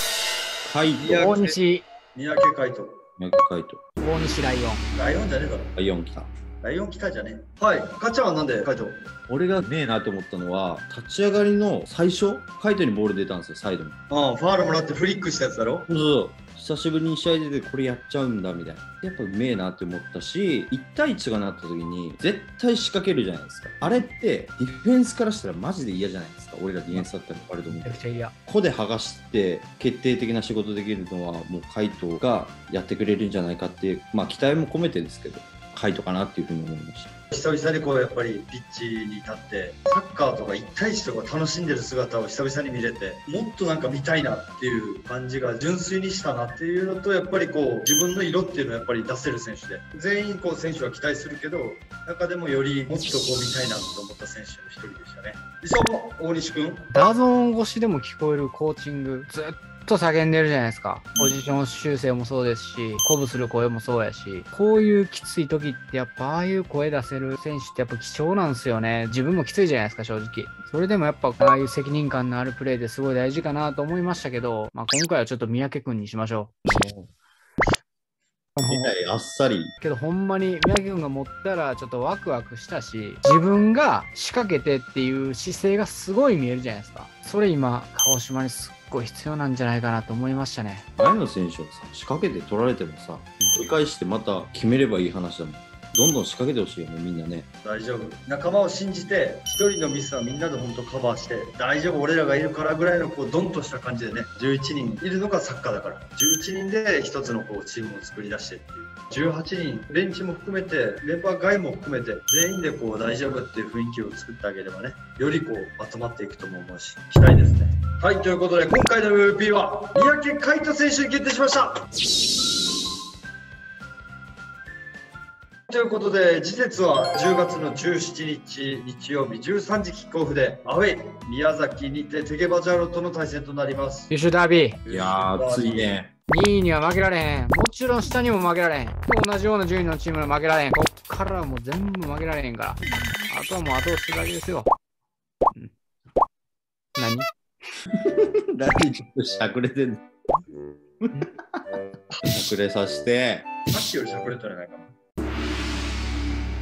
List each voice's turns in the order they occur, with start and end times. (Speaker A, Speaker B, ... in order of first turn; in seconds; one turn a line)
Speaker A: 0.6-1.3
Speaker B: 1.0-1.6
Speaker C: 1.0-1.9
Speaker B: 2.1-3.0
Speaker A: 3.2-3.8
Speaker C: 4.0-4.8
Speaker B: 4.9-5.8
Speaker A: 5.8-6.3
Speaker B: 6.6-9.1
Speaker A: 9.3-14.0
Speaker B: 14.1-15.9
Speaker A: 15.9-37.1
Speaker C: 27.7-28.3
Speaker B: 37.3-56.9
Speaker C: 56.9-76.6
Speaker A: 76.7-77.1
Speaker C: 78.6-78.9
Speaker A: 78.6-79.7
Speaker C: 79.8-90.9
Speaker A: 91.0-97.5
Speaker B: 97.6-121.8
Speaker B: 125.7-134.1
Speaker C: 134.1-134.8
Speaker B: 134.9-135.9
Speaker A: 134.9-136.1
Speaker C: 136.3-144.7
Speaker C: 147.0-147.3
Speaker A: 147.9-150.1
Speaker A: 151.0-151.6
Speaker A: 152.2-153.5
Speaker B: 153.7-154.9